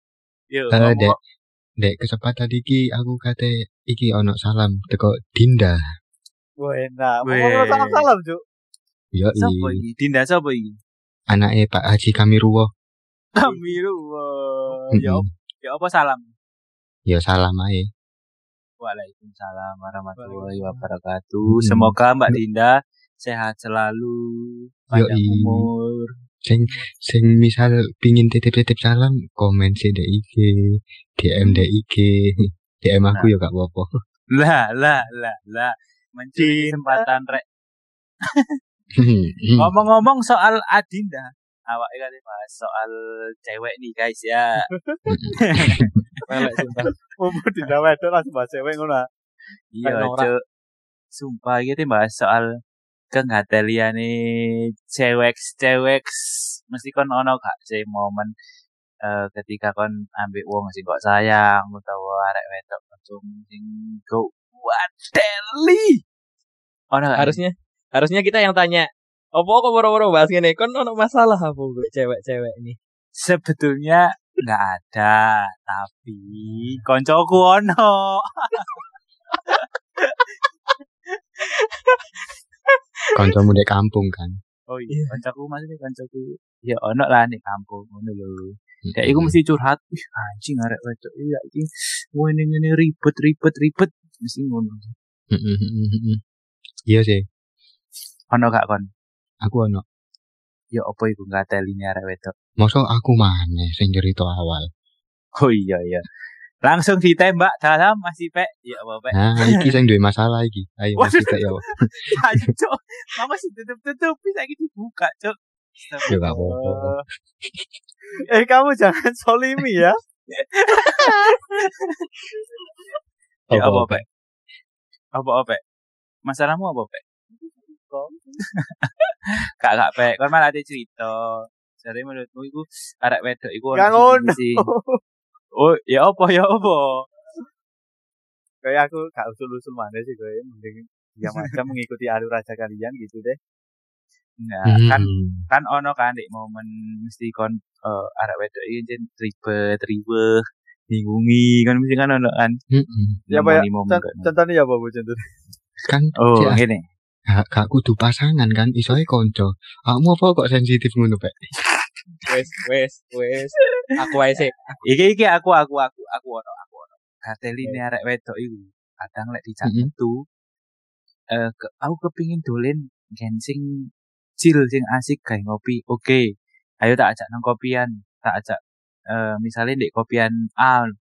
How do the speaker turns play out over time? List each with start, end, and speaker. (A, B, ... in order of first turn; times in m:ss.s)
0:00.5-0:01.2 A
0:00.7-0:01.2 B
0:01.8-0:05.8 B
0:06.6-0:08.4 C
0:07.2-0:08.1 A
0:09.1-0:09.8 B
0:09.4-0:10.8 A
0:11.3-0:12.7 B
0:13.4-0:16.3 A
0:13.4-0:13.8 C
0:14.9-0:15.3 B
0:17.1-0:17.9 B
0:18.8-0:26.1 A
0:20.2-0:20.8 C
0:21.5-0:22.4 B
0:24.9-0:25.7 B
0:26.4-0:30.5 B
0:31.2-0:32.1 B
0:32.8-0:33.9 B
0:34.3-0:37.4 A
0:36.4-0:36.7 D
0:39.0-0:39.7 B
0:39.6-0:44.7 A
0:44.6-0:45.0 C
0:45.1-0:45.9 B
0:45.4-0:46.8 A
0:46.3-0:46.9 D
0:46.8-0:49.1 C
0:49.7-0:50.4 A
0:49.9-0:50.3 D
0:51.1-0:52.5 A
0:53.1-0:58.3 A
0:59.0-1:06.0 A
1:06.9-1:07.4 A
1:07.2-1:12.8 D
1:13.2-1:20.3 A
1:21.6-1:22.0 D
1:23.2-1:24.4 B
1:24.7-1:34.9 A
1:28.9-1:29.4 B
1:35.3-1:36.2 B
1:36.9-1:37.2 B
1:38.3-1:38.9 A
1:39.4-1:39.8 B
1:40.7-1:42.3 A
1:42.6-1:44.7 B
1:45.4-1:46.1 A
1:46.6-1:49.6 A
1:49.2-1:52.1 B
1:51.0-1:51.5 A
1:52.1-1:57.0 A
1:56.1-1:57.7 B
1:56.2-1:56.5 C
1:58.3-2:00.0 C
2:00.3-2:02.1 A
2:03.5-2:04.0 A
2:03.5-2:04.0 B
2:05.1-2:05.6 A
2:06.2-2:07.0 A
2:07.9-2:08.2 C
2:09.6-2:14.7 A
2:13.7-2:15.0 C
2:15.6-2:17.1 A
2:18.6-2:23.4 C
2:24.4-2:32.6 A
2:24.7-2:25.5 B
2:32.7-2:33.2 B
2:33.3-2:34.3 A
2:33.3-2:35.2 C
2:35.9-2:36.6 B
2:36.2-2:36.8 A
2:37.3-2:41.5 B
2:42.3-2:43.5 D
2:44.1-2:44.5 D
2:44.3-2:50.2 A
2:49.6-2:49.9 B
2:51.3-2:53.8 A
2:54.4-2:56.2 A
2:56.8-2:58.6 A
2:59.1-3:00.9 A